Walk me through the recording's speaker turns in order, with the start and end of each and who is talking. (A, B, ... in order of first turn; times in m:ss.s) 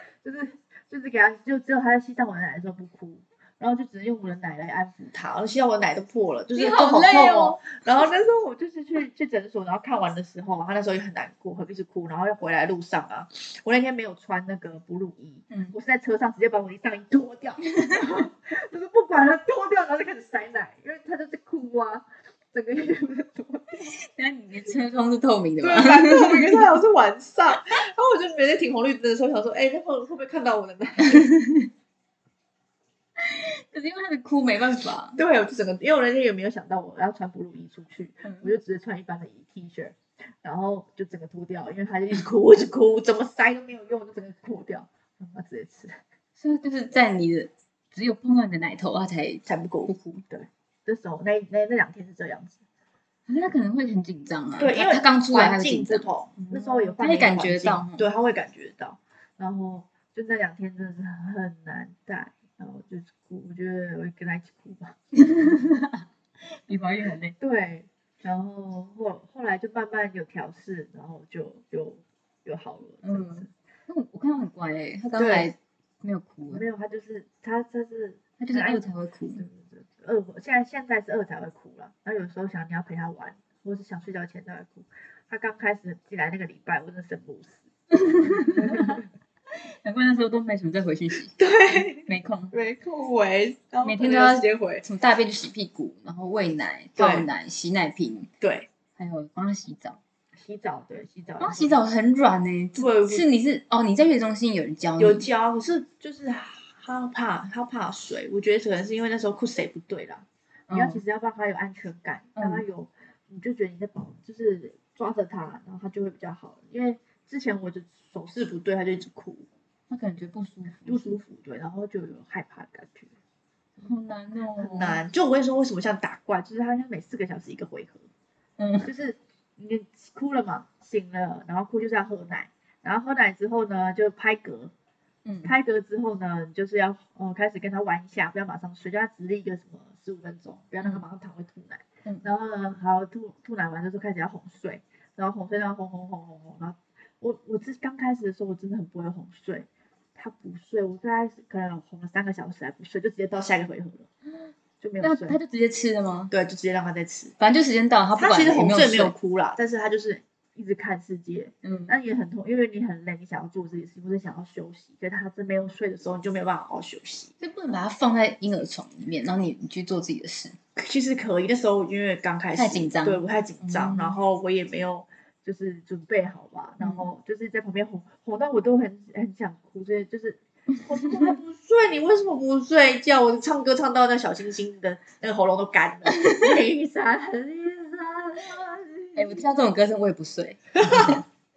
0:00.2-0:23.9 A
0:06.5-0:08.0 B
0:17.8-0:18.1 B
0:23.9-0:26.7 B
0:25.6-0:31.3 A
0:31.1-0:31.7 B
0:33.2-0:35.2 B
0:35.2-0:46.0 A
0:38.2-0:38.5 B
0:46.4-0:50.2 B
0:49.4-0:52.6 A
0:53.3-0:58.0 B
0:54.6-1:05.6 A
1:05.2-1:07.3 B
1:07.4-1:13.5 A
1:13.0-1:16.6 B
1:15.2-1:15.5 A
1:16.5-1:27.6 A
1:18.4-1:19.4 B
1:27.9-1:29.0 B
1:28.2-1:29.0 A
1:29.7-1:32.5 B
1:31.3-1:34.8 A
1:33.8-1:38.3 B
1:37.0-1:37.3 A
1:38.4-1:38.7 A
1:39.0-1:40.0 B
1:40.4-1:41.8 A
1:41.4-1:45.3 B
1:42.8-1:43.3 A
1:45.0-1:59.5 A
1:50.7-1:51.0 B
1:52.4-1:52.6 B
1:59.9-2:01.1 B
2:00.8-2:03.1 A
2:03.8-2:05.0 B
2:04.6-2:08.1 A
2:08.6-2:08.9 B
2:08.8-2:14.7 A
2:15.2-2:15.5 B
2:15.4-2:34.1 A
2:34.8-2:35.4 A
2:35.0-2:36.3 B
2:36.3-2:37.3 A
2:37.4-2:39.1 B
2:38.2-2:47.3 A
2:41.6-2:41.9 B
2:47.4-2:50.6 B
2:50.8-3:09.5 A
2:52.6-2:54.2 B
2:56.8-2:57.1 B
3:09.2-3:11.2 B
3:10.8-3:11.2 A